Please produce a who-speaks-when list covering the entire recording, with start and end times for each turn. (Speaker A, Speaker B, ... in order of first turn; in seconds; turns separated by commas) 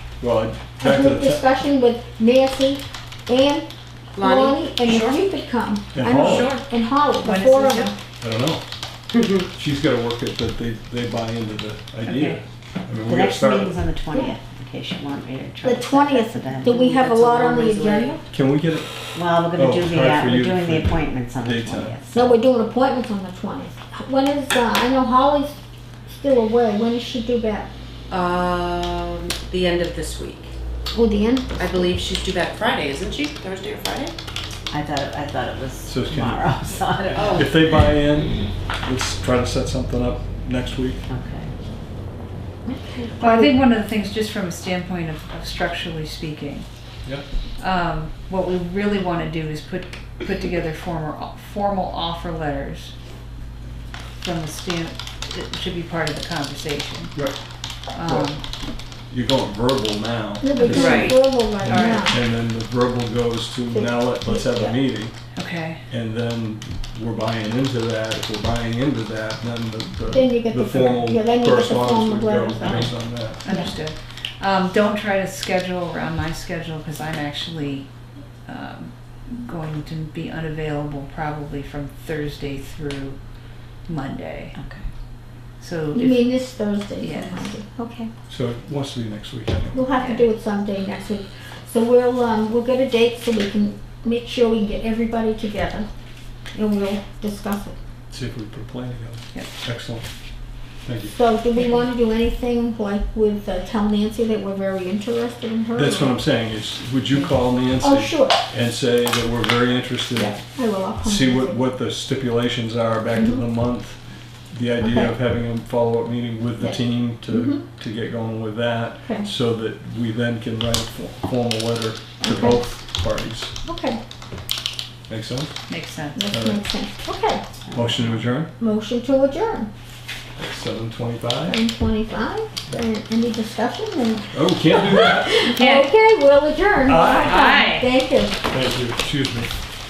Speaker A: 0.2-1.5, Speaker B: 0.8-7.9, Speaker C: 4.2-5.2, Speaker A: 5.9-6.5, Speaker C: 6.1-6.6, Speaker D: 7.2-7.9, Speaker A: 8.2-8.6, Speaker C: 9.1-9.4, Speaker A: 9.5-13.8, Speaker D: 12.1-12.4, Speaker E: 13.0-16.9, Speaker B: 14.1-14.4, Speaker B: 15.6-18.2, Speaker C: 16.8-18.2, Speaker A: 18.3-19.0, Speaker E: 19.1-22.4, Speaker A: 19.5-21.9, Speaker B: 22.1-27.7, Speaker C: 28.1-30.5, Speaker B: 30.9-31.7, Speaker C: 31.6-34.1, Speaker E: 34.7-37.9, Speaker A: 35.9-36.5, Speaker C: 37.1-37.5, Speaker A: 37.3-41.0, Speaker E: 41.1-41.5, Speaker B: 42.7-43.6, Speaker D: 43.2-46.7, Speaker D: 47.6-52.9, Speaker D: 54.2-57.2, Speaker D: 57.9-58.4, Speaker A: 59.1-65.2, Speaker B: 60.4-62.2, Speaker D: 60.6-62.1, Speaker B: 63.7-64.8, Speaker D: 65.3-65.8, Speaker A: 65.9-73.4, Speaker B: 70.1-73.8, Speaker D: 73.4-77.9, Speaker D: 78.5-83.2, Speaker D: 83.9-84.6, Speaker E: 84.5-84.9, Speaker D: 85.6-86.3, Speaker B: 85.9-88.1, Speaker D: 87.0-87.6, Speaker A: 88.3-89.9, Speaker B: 89.7-95.9, Speaker D: 90.0-90.3, Speaker B: 96.5-97.8, Speaker A: 98.1-100.1, Speaker A: 100.8-101.2, Speaker B: 101.1-106.2, Speaker D: 101.6-101.8, Speaker A: 105.8-110.4, Speaker B: 107.8-108.4, Speaker B: 110.2-111.6, Speaker A: 111.0-114.0, Speaker B: 113.2-113.4, Speaker A: 114.5-123.5, Speaker B: 114.8-115.2, Speaker B: 116.6-117.7, Speaker B: 119.0-119.3, Speaker B: 122.2-122.7, Speaker B: 123.7-124.0, Speaker A: 125.1-125.6, Speaker D: 125.7-126.2, Speaker B: 126.2-127.5, Speaker A: 126.3-126.6, Speaker E: 127.7-128.2, Speaker A: 127.7-128.5, Speaker B: 128.6-129.7, Speaker A: 130.4-131.6, Speaker B: 131.5-138.4, Speaker A: 134.3-135.4, Speaker D: 135.6-135.9, Speaker A: 136.9-137.4, Speaker D: 137.1-137.9, Speaker A: 138.4-139.5